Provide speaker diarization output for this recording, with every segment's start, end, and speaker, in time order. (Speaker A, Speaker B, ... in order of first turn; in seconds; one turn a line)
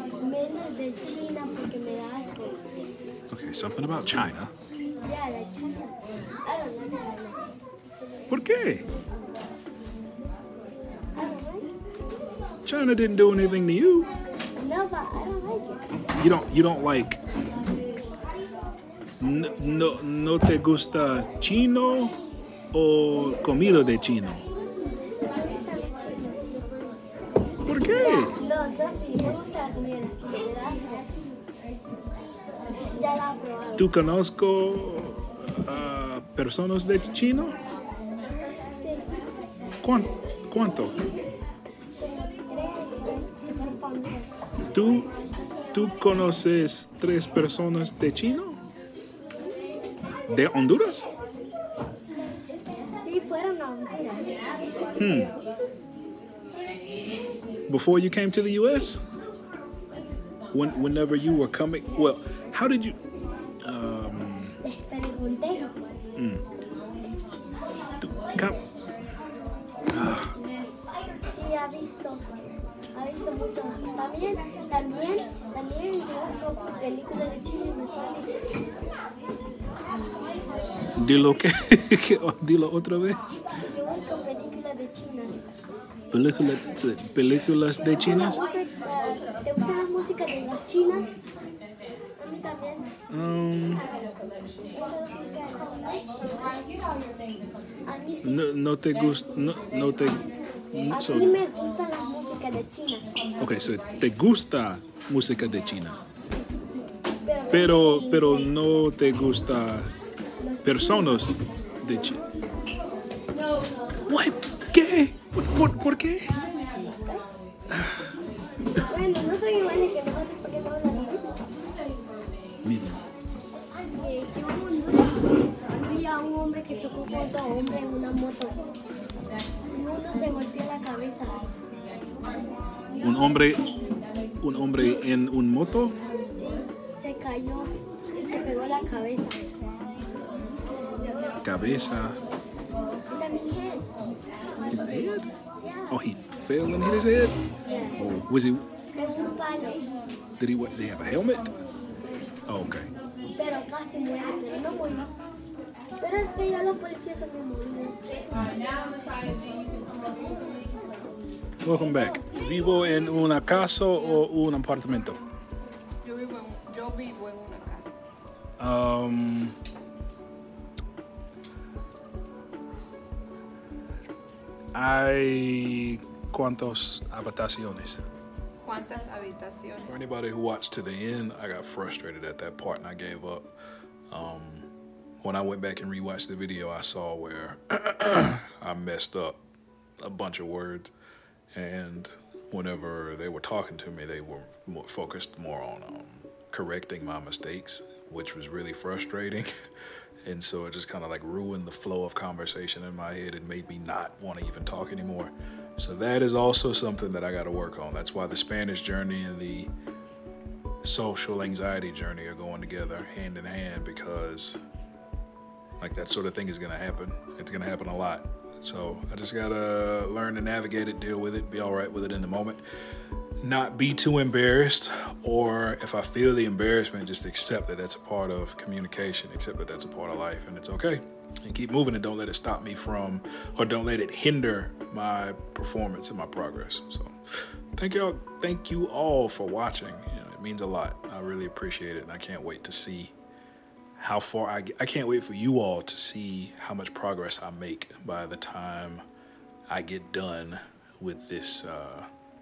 Speaker A: 0.2-2.9
Speaker B: 3.3-4.5
Speaker A: 5.0-7.5
Speaker B: 8.3-8.8
Speaker A: 11.1-11.7
Speaker B: 12.7-14.1
Speaker A: 14.6-15.9
Speaker B: 16.2-17.2
Speaker B: 19.2-22.1
Speaker B: 22.7-24.4
Speaker A: 25.3-26.8
Speaker B: 27.7-28.3
Speaker A: 27.9-31.3
Speaker A: 32.9-33.9
Speaker B: 33.8-37.6
Speaker A: 38.8-39.1
Speaker B: 39.8-41.0
Speaker A: 42.0-44.3
Speaker B: 44.7-45.1
Speaker B: 45.7-48.6
Speaker B: 50.3-51.1
Speaker A: 53.0-54.9
Speaker B: 55.0-55.4
Speaker B: 57.7-59.0
Speaker B: 60.5-63.0
Speaker B: 63.7-64.6
Speaker A: 64.6-65.7
Speaker B: 66.2-66.4
Speaker B: 68.0-68.6
Speaker B: 69.9-70.3
Speaker A: 71.3-72.4
Speaker A: 72.9-78.4
Speaker B: 81.0-83.2
Speaker A: 83.6-85.5
Speaker B: 86.1-88.4
Speaker A: 87.8-91.1
Speaker A: 92.2-92.9
Speaker B: 93.1-93.8
Speaker A: 94.7-96.1
Speaker A: 97.8-98.4
Speaker B: 98.2-101.4
Speaker A: 100.9-103.0
Speaker B: 103.4-106.0
Speaker A: 107.2-108.5
Speaker B: 107.5-109.9
Speaker A: 110.4-111.2
Speaker B: 110.6-112.2
Speaker B: 114.1-116.3
Speaker A: 118.8-121.4
Speaker B: 122.6-123.0
Speaker A: 123.9-128.6
Speaker A: 129.7-131.4
Speaker B: 133.0-133.6
Speaker B: 134.4-135.9
Speaker A: 136.3-139.5
Speaker B: 141.4-142.2
Speaker A: 143.1-143.9
Speaker B: 144.7-145.3
Speaker A: 145.6-146.0
Speaker B: 145.9-147.4
Speaker A: 147.7-148.1
Speaker B: 148.0-148.7
Speaker A: 148.9-149.8
Speaker B: 150.4-151.6
Speaker B: 152.5-152.9
Speaker A: 153.3-155.1
Speaker A: 156.0-158.6
Speaker B: 161.6-165.2
Speaker C: 166.0-168.0
Speaker B: 168.6-169.6
Speaker B: 174.7-178.1
Speaker C: 178.6-180.0
Speaker B: 179.9-183.5
Speaker B: 184.1-184.7
Speaker B: 185.2-189.4
Speaker B: 190.0-190.9
Speaker B: 191.5-199.5
Speaker B: 200.2-209.7
Speaker B: 210.8-214.6
Speaker B: 215.8-222.6
Speaker B: 223.4-243.2
Speaker B: 244.0-249.1
Speaker B: 249.7-252.1